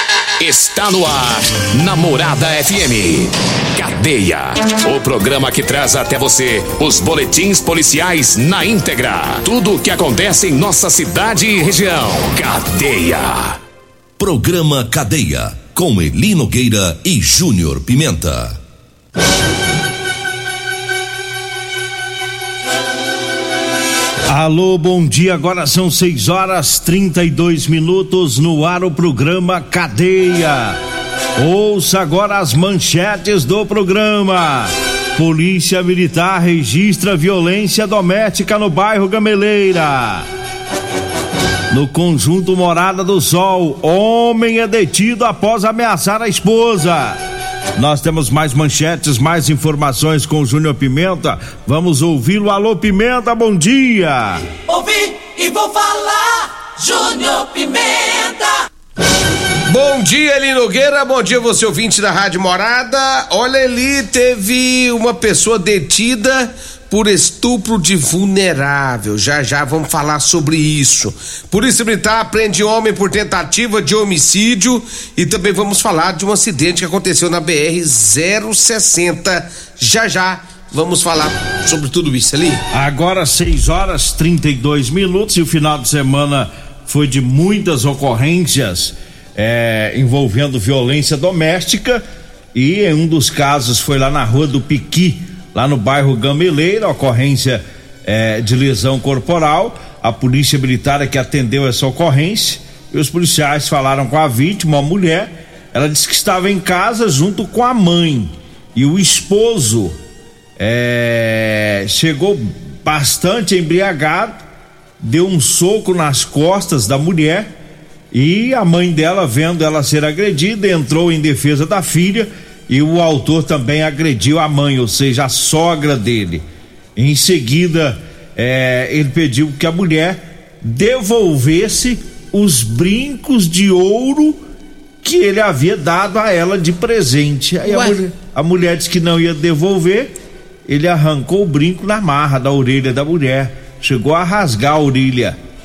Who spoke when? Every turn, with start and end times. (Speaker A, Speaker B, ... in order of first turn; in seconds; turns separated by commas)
Speaker A: 0.4-13.6, Speaker B: 14.2-18.6, Speaker C: 24.3-30.8, Speaker C: 31.4-40.3, Speaker C: 41.7-47.2, Speaker C: 47.7-54.5, Speaker D: 54.6-58.6, Speaker E: 59.7-82.6, Speaker C: 82.7-92.0, Speaker C: 92.5-110.0, Speaker C: 110.6-114.4, Speaker C: 115.0-117.5, Speaker C: 118.1-126.4, Speaker C: 127.0-134.4, Speaker C: 135.0-140.2, Speaker E: 137.6-138.0, Speaker C: 140.7-145.4